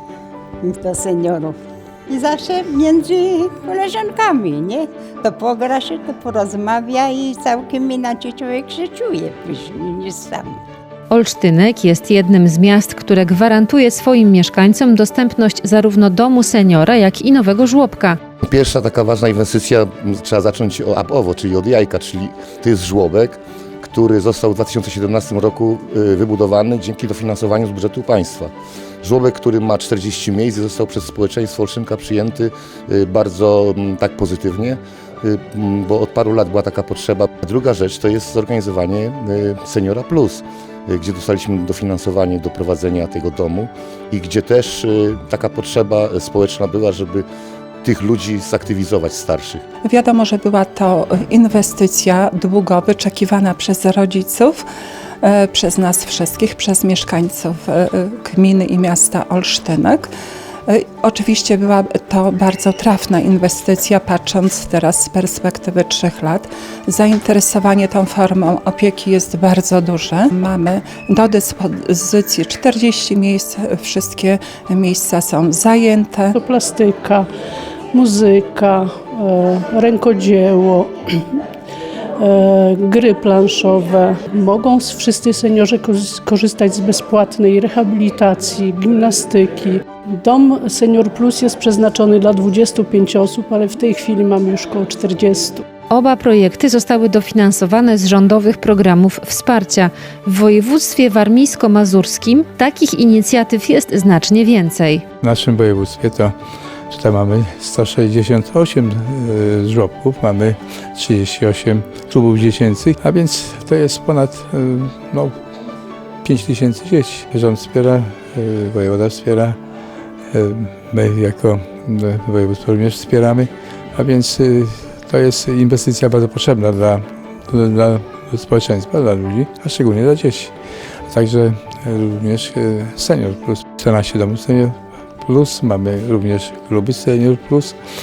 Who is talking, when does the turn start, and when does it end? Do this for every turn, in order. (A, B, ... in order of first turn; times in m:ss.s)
0:00.6-0:10.6 A
0:11.1-0:18.2 B
0:18.4-0:47.2 C
0:47.8-0:49.6 C
0:49.8-0:54.6 D
0:55.2-1:00.1 D
1:00.7-1:16.3 D
1:16.3-1:17.3 E
1:17.9-1:21.4 E
1:22.2-1:35.6 E
1:35.9-1:45.0 B
1:45.2-1:46.3 F
1:46.9-1:55.3 F
1:56.2-1:59.6 F
2:00.3-2:10.5 F
2:11.1-2:17.8 F